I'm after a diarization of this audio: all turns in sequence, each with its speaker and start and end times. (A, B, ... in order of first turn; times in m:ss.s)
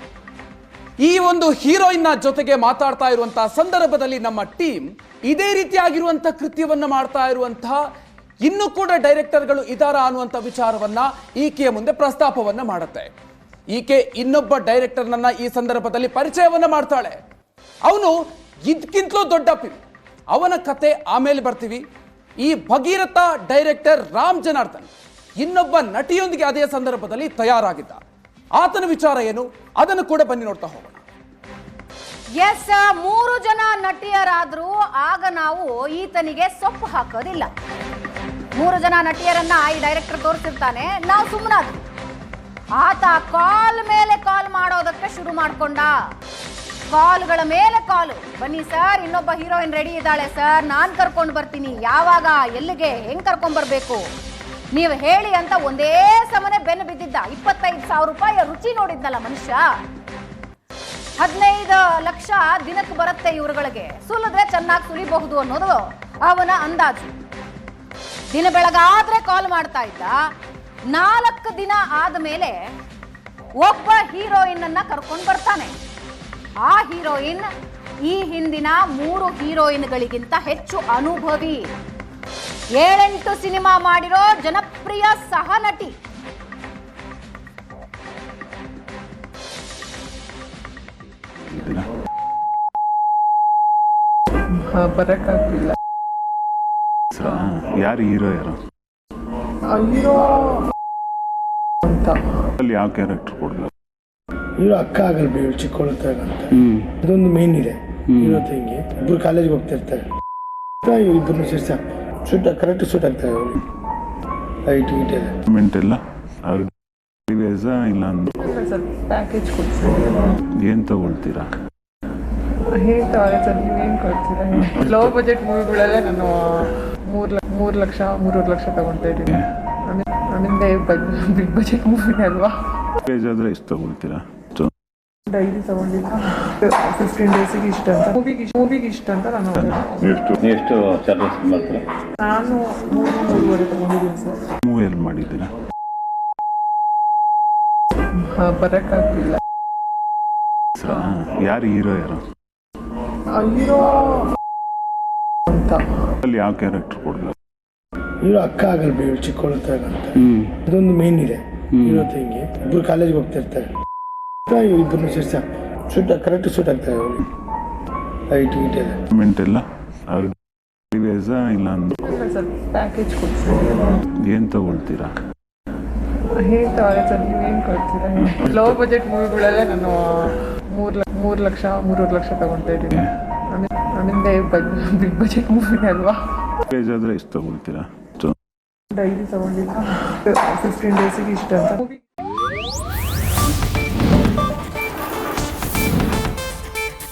0:01.0-0:07.8 A
0:08.4-0:13.1 A
0:13.7-0:17.2 A
0:17.8-0:19.8 A
0:20.3-0:21.8 A
0:22.4-0:28.0 A
0:28.6-0:31.0 A
0:32.4-0:37.5 B
0:38.6-0:41.8 B
0:42.8-0:45.9 B
0:46.9-0:54.0 B
0:54.7-0:59.6 B
1:01.2-1:07.1 B
1:08.3-1:10.2 B
1:10.9-1:12.6 B
1:13.6-1:15.7 B
1:16.6-1:17.4 B
1:18.1-1:21.6 B
1:22.8-1:25.9 B
1:31.5-1:31.8 C
1:34.5-1:35.8 D
1:37.1-1:38.6 C
1:39.6-1:40.6 D
1:41.8-1:42.2 D
1:42.6-1:43.7 C
1:44.6-1:50.0 E
1:50.8-1:53.6 E
1:54.7-1:55.3 E
1:55.5-1:56.7 C
1:57.3-1:58.3 C
1:58.4-2:00.3 D
2:00.6-2:01.5 C
2:02.7-2:09.3 D
2:04.5-2:05.1 C
2:09.8-2:12.5 D
2:13.0-2:14.7 C
2:15.3-2:20.0 D
2:19.5-2:19.9 C
2:20.1-2:21.8 F
2:22.2-2:24.4 D
2:24.6-2:25.5 C
2:28.2-2:29.4 D
2:30.8-2:32.2 C
2:33.3-2:34.3 D
2:35.5-2:35.8 D
2:36.2-2:37.4 C
2:38.2-2:43.7 E
2:41.8-2:42.1 F
2:44.5-2:47.2 E
2:48.3-2:49.0 E
2:49.1-2:50.3 C
2:50.9-2:52.0 C
2:52.0-2:54.0 D
2:54.2-2:55.1 C
2:56.4-3:03.0 D
2:58.2-2:58.6 C
3:03.5-3:06.2 D
3:06.6-3:08.3 C
3:08.9-3:12.0 D